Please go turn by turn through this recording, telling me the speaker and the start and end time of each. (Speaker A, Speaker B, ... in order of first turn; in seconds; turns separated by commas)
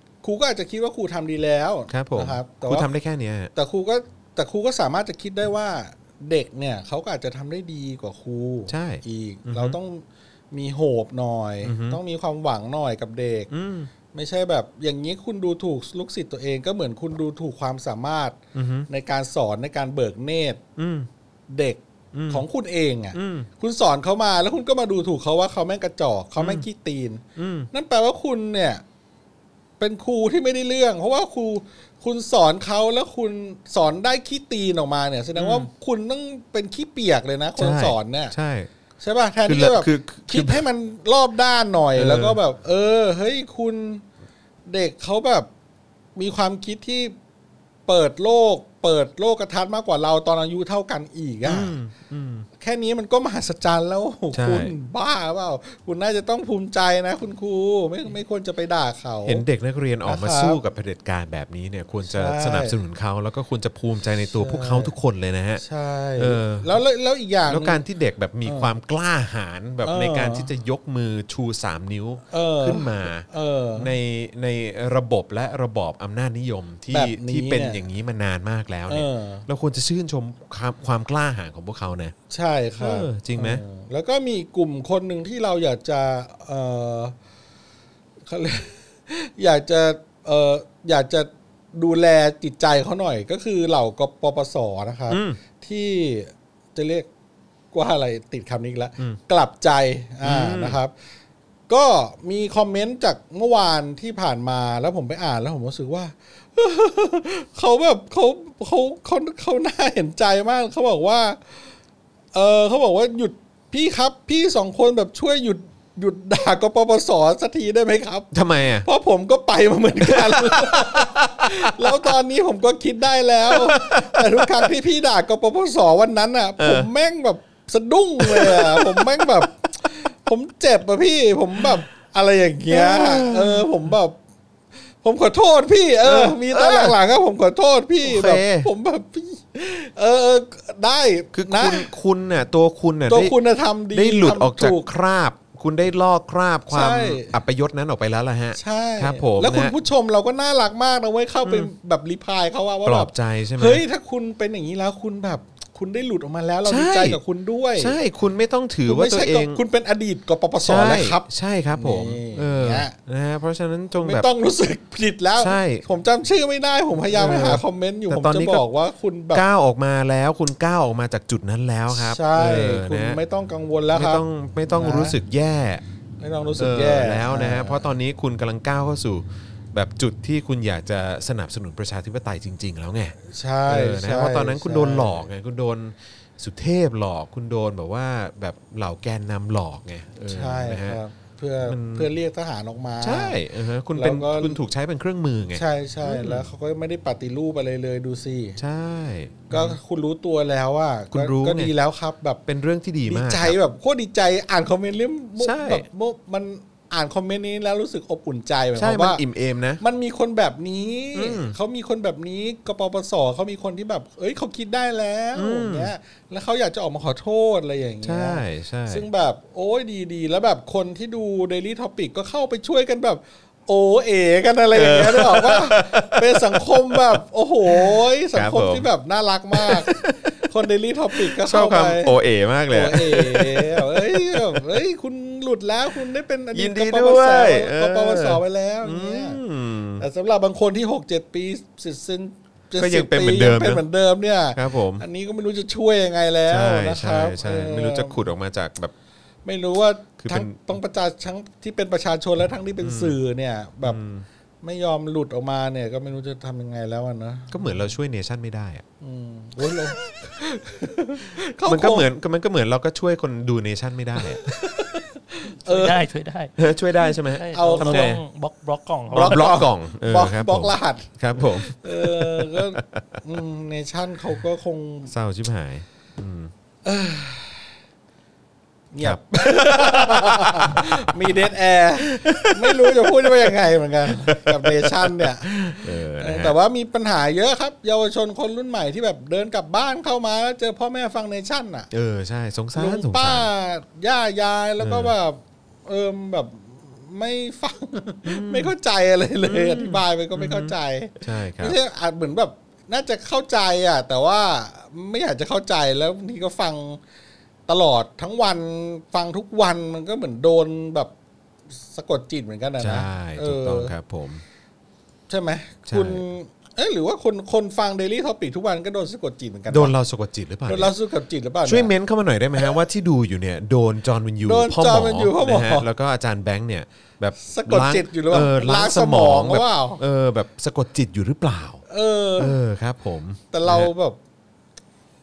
Speaker A: 0.2-2.9, Speaker B: 1.9-3.5, Speaker A: 3.5-13.5, Speaker B: 8.7-9.8, Speaker B: 11.6-12.0, Speaker B: 13.5-13.9, Speaker A: 14.1-20.6, Speaker B: 18.5-18.9, Speaker B: 20.8-21.1, Speaker A: 21.5-28.8, Speaker B: 22.1-22.4, Speaker B: 23.1-23.5, Speaker B: 26.4-26.6, Speaker B: 27.4-27.7, Speaker A: 29.8-38.3, Speaker B: 35.3-35.7, Speaker B: 37.6-38.7, Speaker A: 39.0-44.0, Speaker B: 39.5-40.6, Speaker B: 42.0-42.4, Speaker A: 44.6-45.5, Speaker A: 46.1-47.1, Speaker A: 47.9-51.7, Speaker B: 51.4-52.5, Speaker A: 52.6-59.4, Speaker B: 54.3-54.7, Speaker B: 59.2-65.6, Speaker A: 60.0-60.6, Speaker A: 62.0-62.7, Speaker A: 64.3-64.9, Speaker A: 65.6-67.8, Speaker B: 66.2-66.7, Speaker B: 67.5-82.1, Speaker A: 68.4-68.7, Speaker A: 69.8-70.5, Speaker A: 72.3-73.9, Speaker A: 76.9-77.8, Speaker A: 78.9-79.5, Speaker A: 82.3-87.2, Speaker B: 82.8-83.6, Speaker A: 88.2-97.1, Speaker B: 95.1-95.4, Speaker A: 97.7-100.9, Speaker B: 100.2-100.8, Speaker A: 101.7-111.7, Speaker A: 112.3-118.3, Speaker B: 118.3-118.8, Speaker A: 118.8-134.2, Speaker B: 120.0-122.2, Speaker B: 123.5-124.7, Speaker B: 126.6-126.9, Speaker B: 128.2-129.5, Speaker B: 132.7-133.7, Speaker A: 135.0-141.9, Speaker B: 136.0-137.0, Speaker B: 138.0-138.7, Speaker B: 141.3-143.3, Speaker A: 143.1-144.8, Speaker B: 143.9-149.7, Speaker A: 146.7-147.3, Speaker A: 148.6-158.0, Speaker B: 151.4-151.7, Speaker B: 152.8-153.8, Speaker B: 156.7-157.2, Speaker B: 157.8-159.6, Speaker A: 158.8-162.9, Speaker B: 160.6-164.3, Speaker A: 164.0-169.4, Speaker B: 165.4-165.8, Speaker B: 167.1-168.6, Speaker B: 169.3-173.2, Speaker A: 171.9-175.2, Speaker B: 173.9-175.8, Speaker A: 176.2-177.9, Speaker B: 176.6-183.2, Speaker A: 183.3-185.2, Speaker B: 183.7-191.0, Speaker A: 190.3-193.4, Speaker B: 191.6-192.1, Speaker B: 193.0-196.5, Speaker A: 193.9-194.6, Speaker A: 195.5-198.6, Speaker B: 198.6-199.8, Speaker A: 199.5-202.4, Speaker B: 201.1-201.7, Speaker B: 202.5-203.6, Speaker A: 203.1-209.2, Speaker B: 205.4-205.8, Speaker B: 208.8-209.8, Speaker A: 209.8-232.2, Speaker B: 211.1-211.6, Speaker B: 215.3-215.9, Speaker B: 218.0-219.0, Speaker B: 224.7-227.2, Speaker B: 227.7-228.9, Speaker B: 229.5-230.3, Speaker B: 231.1-234.8, Speaker A: 232.7-239.4, Speaker B: 236.5-240.1, Speaker A: 240.0-248.2, Speaker B: 242.8-243.8, Speaker B: 244.6-245.0, Speaker B: 246.5-248.9, Speaker A: 249.4-254.0, Speaker B: 250.2-250.6, Speaker B: 252.8-253.2, Speaker B: 253.8-254.2, Speaker A: 254.6-257.8, Speaker B: 257.5-258.8, Speaker A: 259.0-262.1, Speaker B: 261.6-264.4, Speaker A: 264.4-266.0, Speaker C: 265.6-269.5, Speaker B: 266.6-268.2, Speaker A: 267.5-268.1, Speaker A: 269.1-275.1, Speaker B: 269.1-273.1, Speaker B: 275.1-276.5, Speaker A: 276.8-277.7, Speaker A: 278.9-291.9, Speaker B: 279.0-281.4, Speaker B: 282.1-286.6, Speaker B: 291.9-293.5, Speaker A: 292.7-307.0, Speaker B: 294.8-295.1, Speaker B: 298.2-298.7, Speaker B: 299.4-301.8, Speaker A: 307.7-311.1, Speaker A: 311.8-313.9, Speaker B: 312.8-314.4, Speaker A: 315.3-319.9, Speaker B: 315.9-316.2, Speaker B: 319.7-320.9, Speaker A: 320.7-321.9, Speaker B: 321.6-331.8, Speaker A: 324.4-325.9, Speaker A: 327.4-330.0, Speaker A: 331.9-332.6, Speaker B: 332.4-333.9, Speaker A: 333.5-334.2